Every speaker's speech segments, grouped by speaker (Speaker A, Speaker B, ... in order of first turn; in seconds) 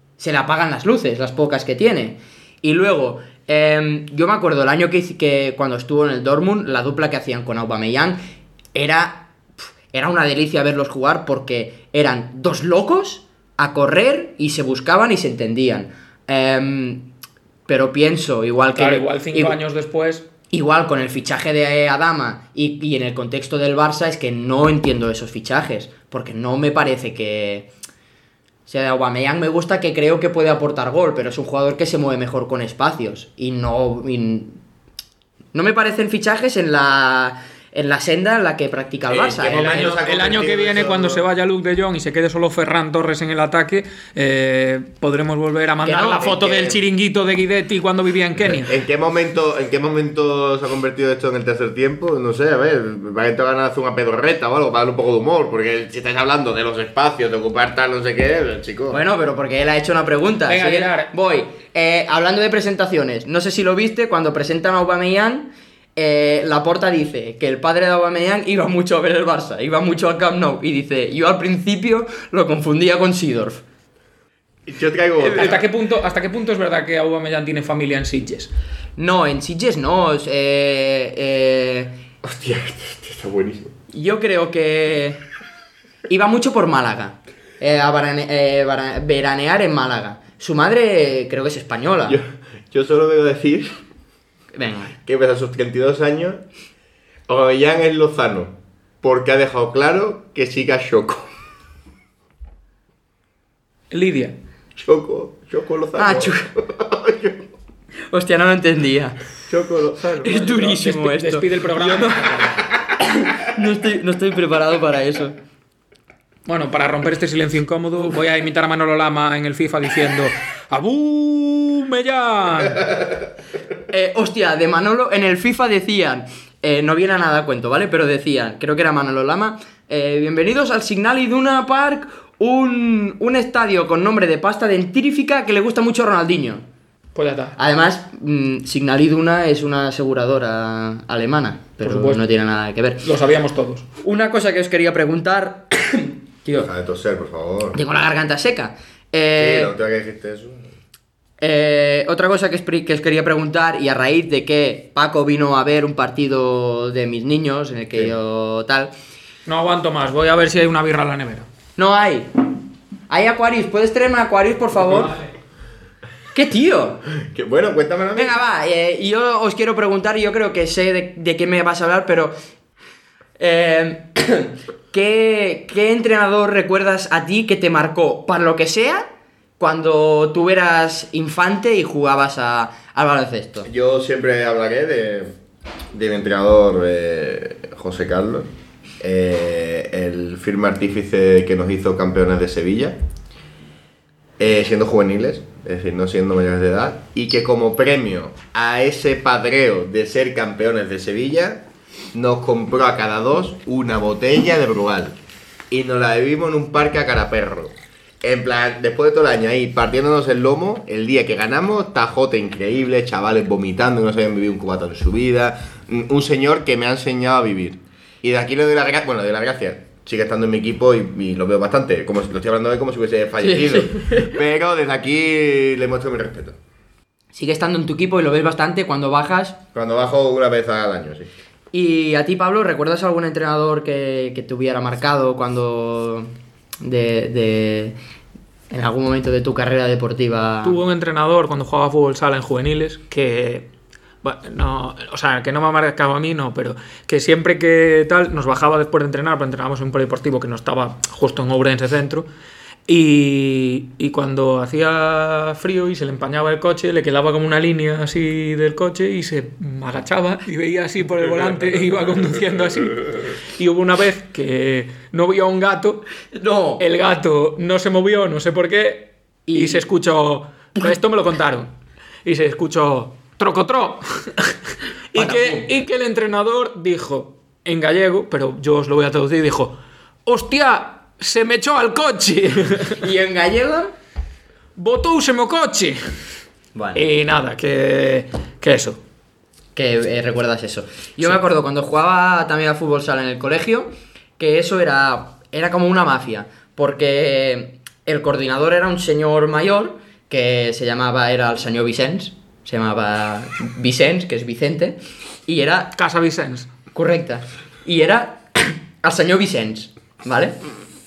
Speaker A: 0.2-8.2, 8.7-17.1, 17.7-19.6, 20.5-27.7, 28.7-34.6, 35.5-40.0, 45.8-46.8, 58.9-73.6, 75.2-75.7, 79.0-82.0, 83.9-85.2, 86.1-92.2, 94.5-95.0, 106.0-106.5, 108.1-109.2, 110.2-112.5, 113.0-115.3, 123.9-136.7, 137.6-143.1, 144.0-146.7, 147.7-149.7, 151.4-158.9, 161.8-162.4, 163.1-165.2, 166.3-167.0, 168.2-172.3, 173.4-179.1, 179.6-183.7, 223.4-224.3, 227.3-229.6, 231.7-238.0, 238.7-240.8, 266.3-266.8, 269.5-269.9, 275.1-275.7, 283.0-283.9, 286.8-287.0, 289.8-305.9, 306.9-310.6
Speaker B: 18.8-20.3, 39.4-48.7, 60.5-61.1, 75.3-78.5, 103.9-104.4, 110.3-112.7, 116.5-123.0, 137.2-137.6, 141.8-142.2, 143.0-143.8, 159.5-161.5, 240.6-243.7, 244.2-252.3, 252.9-266.1, 266.8-271.7, 272.2-274.6, 275.1-279.8, 280.3-283.0, 284.8-286.0, 286.9-289.0, 306.0-306.7
Speaker C: 39.1-41.2, 48.4-59.0, 74.7-75.7, 82.2-83.7, 92.1-93.8, 95.0-96.4, 97.3-101.3, 104.8-107.5, 109.5-110.4, 146.6-147.8, 149.4-150.7, 167.2-168.4, 183.7-185.4, 185.9-188.5, 189.0-193.0, 194.4-205.2, 205.7-226.6, 229.7-231.3